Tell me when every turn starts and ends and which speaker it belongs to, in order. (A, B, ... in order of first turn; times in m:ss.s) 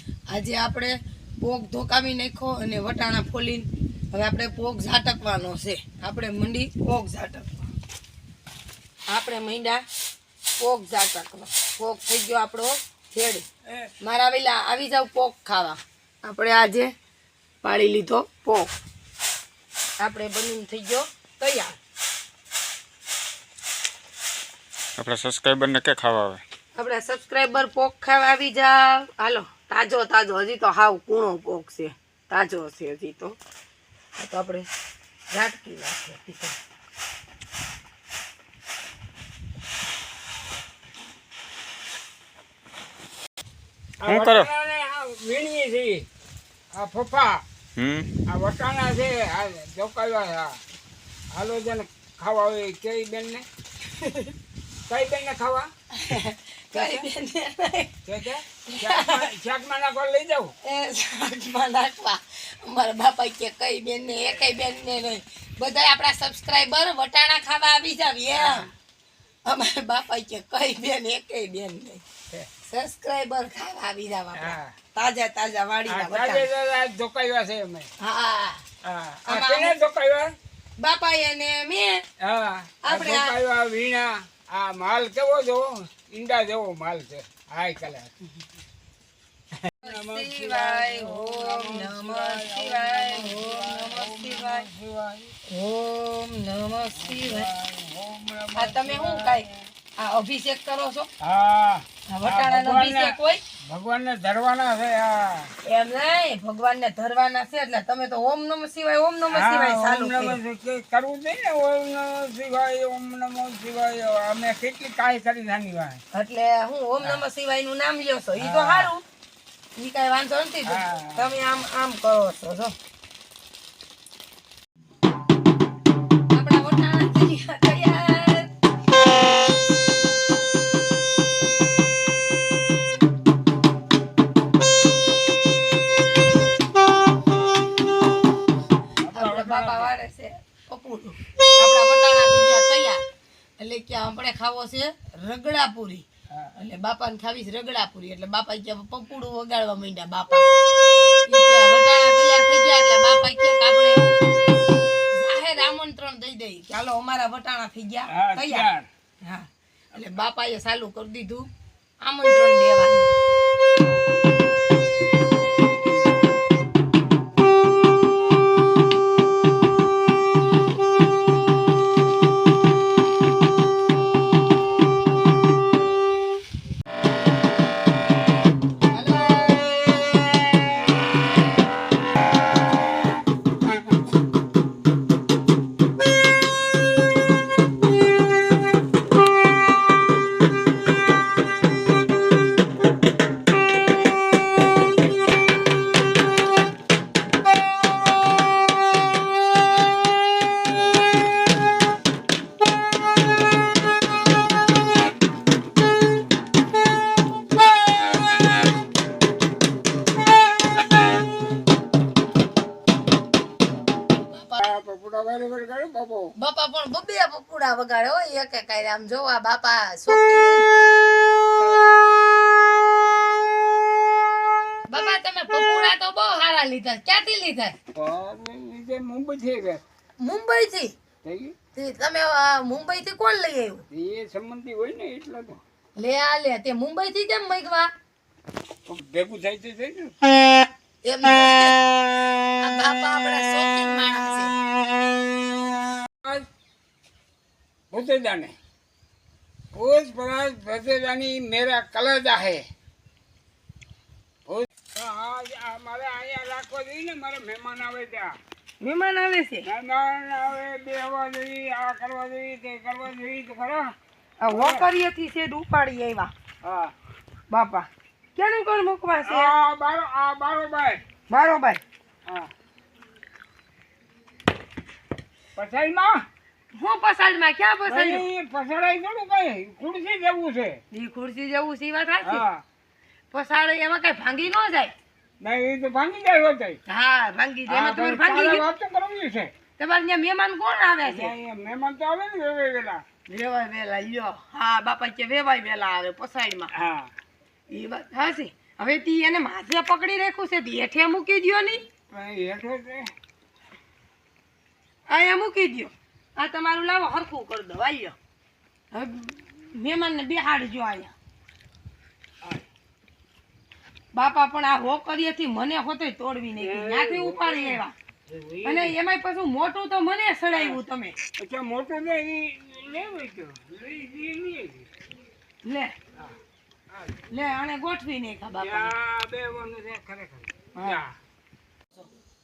0:00.3-0:07.6 A
0:09.1-0:09.8 A
0:10.6-0:13.5 A
0:14.0-0:16.9 A
0:17.6-0:18.7 A
0:20.0-0:21.8 A
0:25.0-0:26.4 B
0:26.7-0:33.4 A
0:34.2-0:34.7 A
0:35.3-0:36.6 A
0:44.0-0:46.1 C
0:44.0-0:44.5 B
0:46.7-0:47.4 C
0:47.8-0:48.1 B
0:48.3-0:50.6 C
0:51.3-0:53.4 C
0:54.0-0:54.3 C
0:54.9-0:55.7 C
0:55.9-0:57.9 A
0:56.7-0:57.0 C
0:58.0-1:00.5 C
0:58.6-0:59.2 A
1:00.6-1:08.7 A
1:08.3-1:08.7 C
1:09.4-1:12.0 A
1:12.6-1:16.5 A
1:14.3-1:14.7 C
1:15.9-1:17.9 C
1:18.0-1:18.6 A
1:18.8-1:20.3 C
1:19.2-1:19.7 A
1:20.8-1:22.0 A
1:22.2-1:28.1 C
1:22.8-1:23.3 A
1:29.6-1:35.3 C
1:29.8-1:34.7 A
1:35.5-1:37.5 A
1:36.9-1:39.6 C
1:38.6-1:41.1 A
1:41.2-1:45.5 C
1:42.1-1:43.4 A
1:45.6-1:50.4 A
1:49.3-1:56.0 C
1:56.1-1:59.0 A
1:58.4-1:58.9 C
1:59.8-2:02.7 A
2:00.6-2:01.3 C
2:06.3-2:08.5 A
2:19.0-2:19.9 C
2:19.1-2:23.0 A
2:23.6-2:26.0 A
2:26.6-2:30.5 A
2:31.2-2:34.0 A
2:35.1-2:38.7 A
2:38.1-2:38.9 C
2:39.2-2:41.5 A
2:42.0-2:43.1 A
2:58.9-2:59.8 A
3:34.3-3:34.6 A
3:34.6-3:36.3 C
3:36.4-3:40.7 A
3:44.9-3:47.8 A
3:47.9-3:49.8 C
3:50.2-3:50.9 A
3:51.2-3:51.6 C
3:51.7-3:53.8 A
3:53.9-3:55.6 C
3:56.0-3:57.9 A
3:58.8-4:00.1 C
4:01.0-4:01.9 A
4:02.6-4:04.6 A
4:06.1-4:06.5 C
4:07.9-4:08.5 C
4:09.7-4:12.6 C
4:14.5-4:18.4 C
4:18.8-4:19.7 A
4:19.6-4:23.9 C
4:24.4-4:26.3 A
4:24.5-4:24.9 C
4:26.6-4:26.9 C
4:27.5-4:29.5 A
4:29.2-4:31.0 C
4:31.3-4:31.8 A
4:35.6-4:36.2 C
4:36.7-4:38.2 A
4:37.9-4:40.8 C
4:40.9-4:42.4 A
4:42.2-4:42.6 C
4:43.3-4:44.9 A
4:45.4-4:46.8 C
4:46.9-4:48.6 A
4:47.7-4:49.5 C
4:49.8-4:51.3 A
4:51.0-4:53.0 C
4:53.3-4:56.7 A
4:56.7-4:57.1 C
4:57.7-5:01.8 A
5:02.1-5:03.1 C
5:05.1-5:08.1 A
5:08.9-5:11.1 A
5:14.1-5:17.9 A
5:16.6-5:19.0 C
5:18.6-5:21.2 A
5:20.5-5:20.8 C
5:21.4-5:24.9 C
5:25.6-5:25.9 A
5:26.9-5:27.2 C
5:27.3-5:28.9 A
5:28.6-5:31.1 C
5:30.7-5:31.0 A